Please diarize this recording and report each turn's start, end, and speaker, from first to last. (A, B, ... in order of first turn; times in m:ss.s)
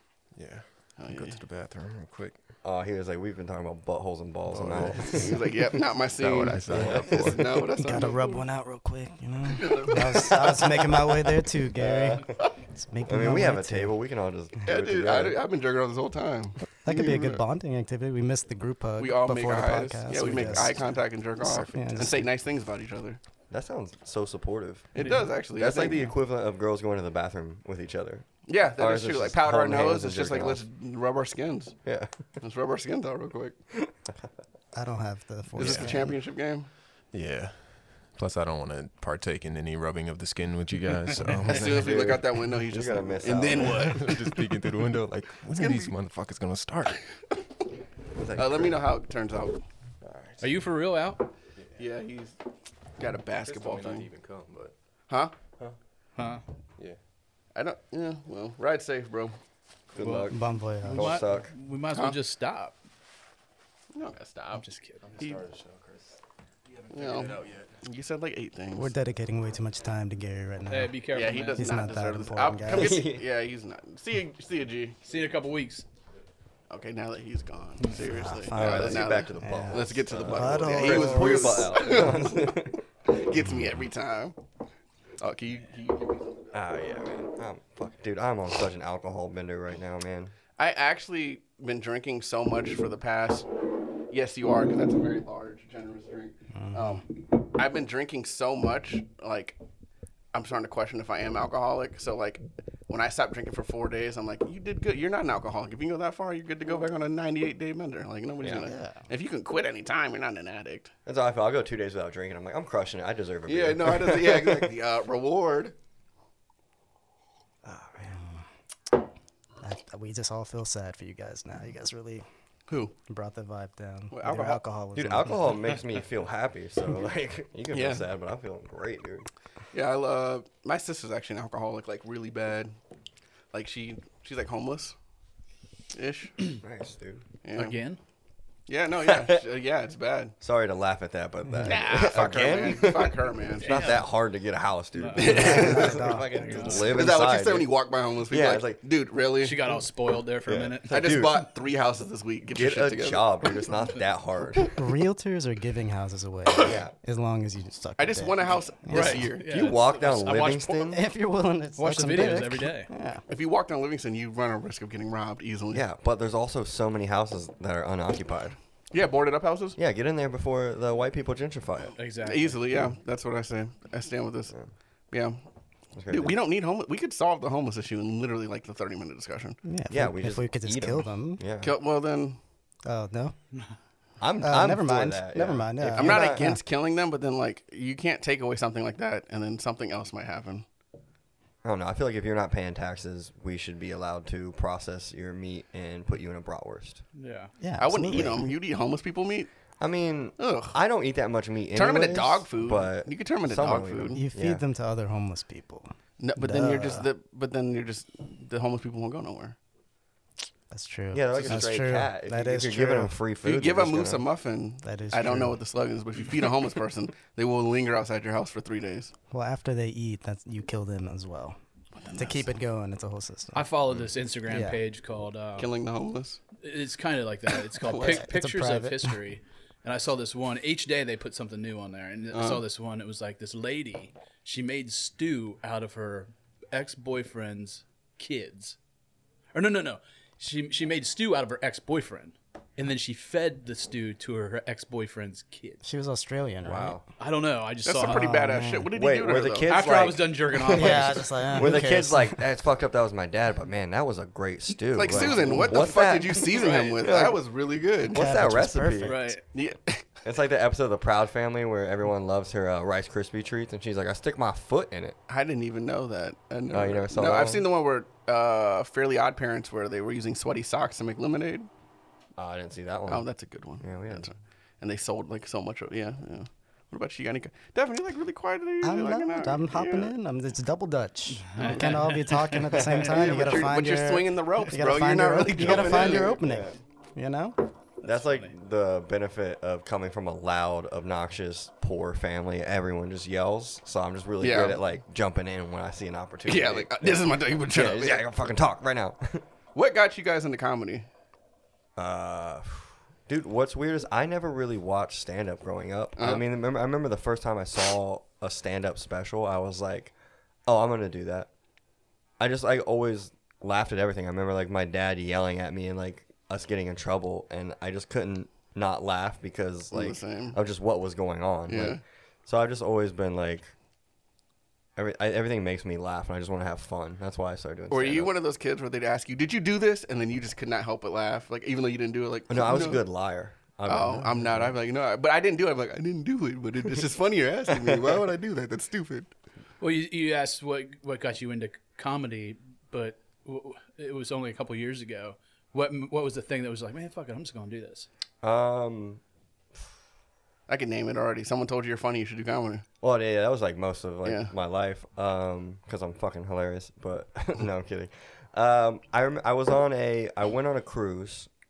0:00.4-0:02.4 A
0:01.0-0:01.4 B
0:02.6-0:05.3 C
0:04.5-0:05.4 A
0:05.1-0:08.4 B
0:06.2-0:07.6 A
0:06.7-0:07.4 C
0:07.8-0:14.0 D
0:09.6-0:10.4 B
0:11.8-0:12.4 C
0:13.0-0:15.4 C
0:14.7-0:17.4 B
0:16.8-0:22.3 D
0:19.0-0:23.2 B
0:23.5-0:24.9 C
0:24.9-0:26.1 B
0:25.6-0:30.6 C
0:28.5-0:31.8 B
0:31.8-0:32.2 C
0:32.4-0:33.6 B
0:33.8-0:34.3 C
0:34.7-0:36.2 D
0:35.6-0:36.7 B
0:35.6-0:35.9 A
0:37.1-0:42.0 A
0:41.5-0:44.4 B
0:41.5-0:44.0 C
0:43.8-0:47.1 A
0:45.5-0:45.9 B
0:48.2-0:48.8 C
0:48.4-0:49.6 B
0:50.0-0:50.6 A
0:50.4-0:51.3 E
0:51.8-0:52.4 B
0:53.0-0:54.1 B
0:53.4-0:54.7 A
0:56.2-0:56.4 E
0:57.6-0:59.4 B
0:59.9-1:01.5 C
1:00.0-1:02.8 E
1:00.3-1:01.2 D
1:03.9-1:04.6 B
1:04.6-1:05.0 E
1:05.0-1:06.2 A
1:05.2-1:05.4 B
1:06.9-1:08.9 B
1:07.0-1:07.7 A
1:08.8-1:13.0 D
1:10.7-1:11.8 E
1:11.1-1:15.0 B
1:12.7-1:13.3 C
1:15.0-1:15.9 E
1:16.7-1:22.5 B
1:17.9-1:21.8 D
1:18.5-1:22.8 C
1:23.1-1:24.4 B
1:25.2-1:26.5 B
1:26.5-1:30.3 C
1:30.6-1:33.5 B
1:34.1-1:39.6 B
1:36.6-1:37.0 D
1:40.3-1:50.9 B
1:48.4-1:48.7 C
1:48.6-1:49.0 D
1:51.1-1:54.7 C
1:53.5-1:55.7 B
1:57.6-1:58.2 C
1:59.6-2:02.3 D
2:03.1-2:05.4 D
2:04.1-2:04.6 B
2:05.0-2:09.3 C
2:07.7-2:08.0 B
2:09.7-2:12.7 B
2:13.5-2:15.0 B
2:15.9-2:16.4 B
2:16.6-2:17.2 C
2:17.4-2:17.8 B
2:17.5-2:18.0 E
2:18.7-2:20.3 B
2:19.0-2:19.4 C
2:20.4-2:27.7 C
2:21.5-2:21.8 D
2:21.7-2:23.7 B
2:23.6-2:24.0 E
2:25.0-2:26.9 E
2:25.2-2:26.0 B
2:25.2-2:26.9 D
2:26.8-2:29.6 B
2:28.3-2:28.8 C
2:29.4-2:31.2 E
2:30.5-2:31.4 C
2:30.9-2:33.7 B
2:32.5-2:34.7 C
2:34.8-2:39.3 D
2:36.6-2:36.9 C
2:38.0-2:39.5 B
2:38.9-2:41.0 E
2:39.5-2:41.0 C
2:40.9-2:43.2 D
2:41.8-2:42.9 E
2:43.3-2:45.8 B
2:45.7-2:48.6 C
2:48.9-2:49.8 B
2:49.8-2:52.0 C
2:52.0-2:52.6 E
2:52.2-2:54.6 B
2:55.1-2:55.4 B
2:56.0-2:56.4 C
2:56.1-2:59.6 B
2:59.6-3:01.4 D
2:59.9-3:01.8 C
3:01.6-3:02.4 B
3:02.8-3:03.4 D
3:04.2-3:06.5 C
3:04.4-3:06.6 D
3:06.0-3:10.7 B
3:11.6-3:17.0 C
3:17.2-3:17.5 E
3:17.6-3:18.5 D
3:17.8-3:19.5 B
3:19.8-3:24.6 C
3:20.4-3:20.8 B
3:21.7-3:24.2 B
3:24.2-3:27.1 D
3:26.2-3:29.6 B
3:30.7-3:33.2 D
3:31.1-3:34.2 C
3:33.4-3:39.1 B
3:34.8-3:35.6 D
3:39.3-3:41.6 D
3:42.0-3:42.5 B
3:42.2-3:43.7 D
3:43.5-3:45.7 E
3:44.5-3:44.8 D
3:45.6-3:46.4 B
3:46.6-3:58.8 E
3:47.8-3:49.2 D
3:47.9-3:48.2 B
3:52.3-3:52.6 B
3:59.5-4:05.8 E
4:05.8-4:07.0 D
4:06.6-4:07.0 C
4:07.2-4:08.3 E
4:07.8-4:09.7 B
4:08.0-4:08.9 D
4:08.9-4:17.4 C
4:09.7-4:11.2 E
4:10.7-4:12.4 D
4:15.0-4:18.2 B
4:16.6-4:17.0 E
4:18.1-4:19.3 C
4:18.1-4:19.4 D
4:19.0-4:19.4 E
4:19.5-4:20.1 B
4:20.2-4:25.2 C
4:25.3-4:31.7 B
4:26.7-4:27.7 C
4:32.4-4:33.3 C
4:33.1-4:40.1 B
4:33.8-4:34.3 C
4:38.8-4:47.6 D
4:41.5-4:42.4 E
4:41.7-4:42.0 B
4:42.8-4:43.2 C
4:43.0-4:46.4 B
4:45.6-4:46.7 C
4:48.0-4:59.4 C
4:48.0-4:48.5 E
4:54.4-4:54.8 B
4:56.5-4:58.4 B
4:59.8-5:01.1 B
5:02.0-5:10.1 C
5:06.2-5:06.4 B
5:10.7-5:11.5 C
5:12.4-5:23.7 C
5:19.9-5:20.6 B
5:21.7-5:22.0 B
5:25.0-5:28.3 C
5:27.9-5:33.0 B
5:32.5-5:34.7 C
5:33.9-5:39.3 B
5:39.8-5:48.1 E
5:48.4-5:49.2 C
5:50.7-5:52.8 B
5:53.0-6:01.5 C
5:54.2-5:54.5 B